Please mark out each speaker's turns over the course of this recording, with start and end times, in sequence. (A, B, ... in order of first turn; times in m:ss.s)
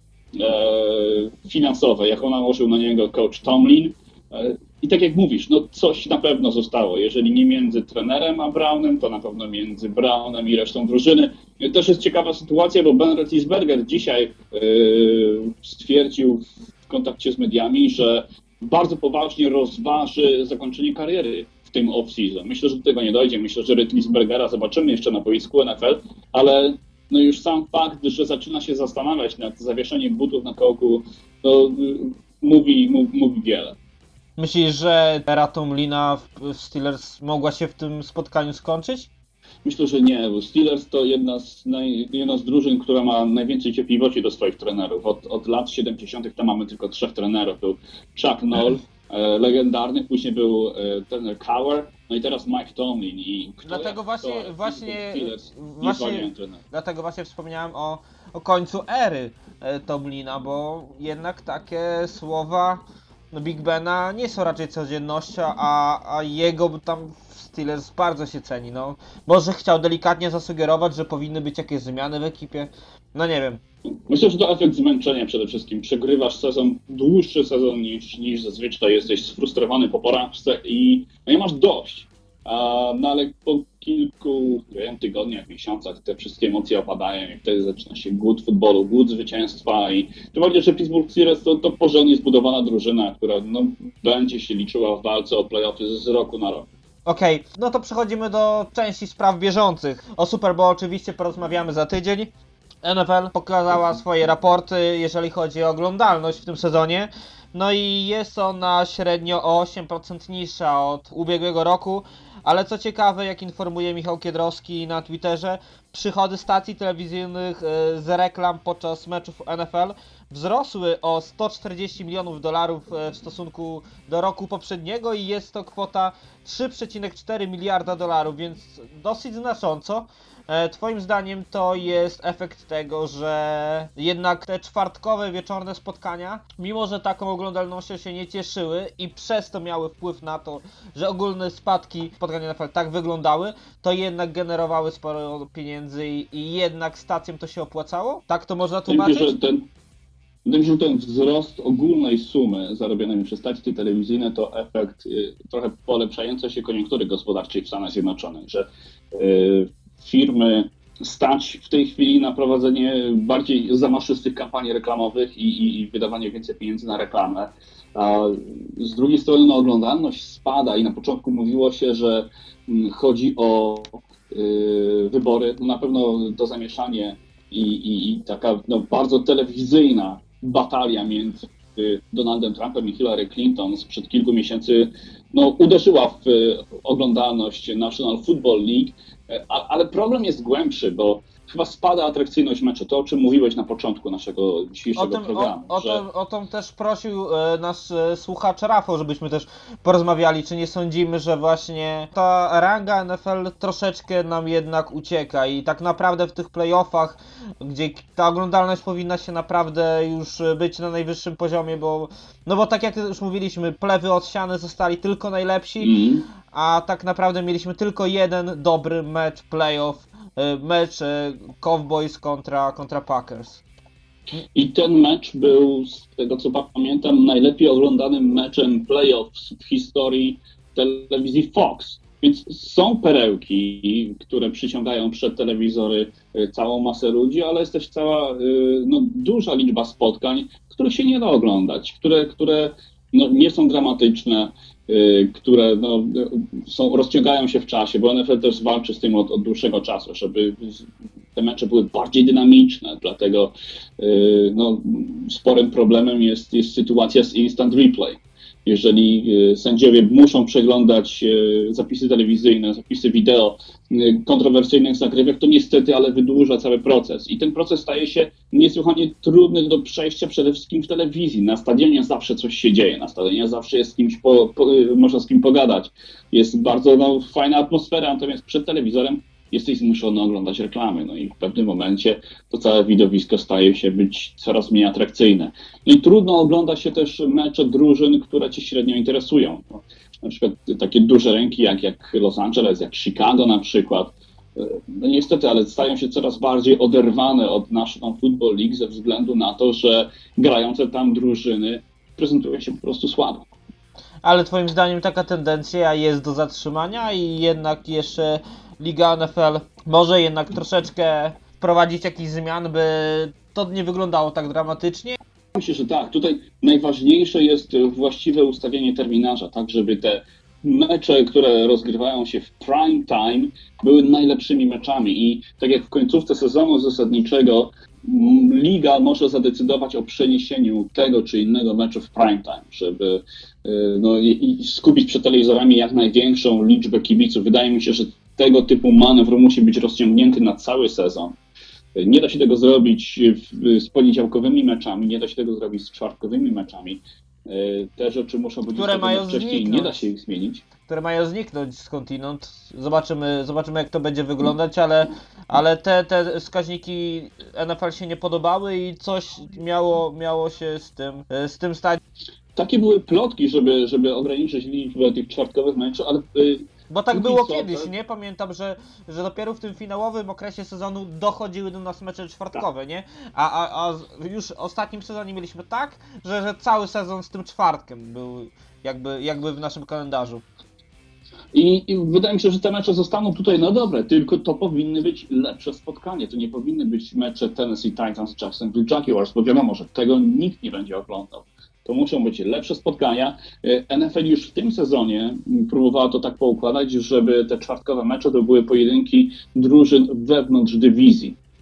0:00.3-0:33.8 A
0:34.4-0:39.1 B
0:39.6-0:56.6 A
0:53.6-1:13.6 B
1:14.1-1:36.7 A
1:37.0-1:42.3 B
1:42.8-2:29.3 B
2:28.9-2:29.7 A
2:30.4-3:16.0 A
3:15.0-3:35.9 B
3:35.8-3:36.2 A
3:36.5-3:43.6 B
3:44.5-5:03.5 A
5:04.2-5:15.2 B
5:15.6-5:41.4 A
5:41.9-5:50.6 A
5:48.7-5:50.0 B
5:50.9-6:02.0 B
6:02.6-6:07.9 A
6:06.9-6:20.4 B
6:21.5-6:41.4 A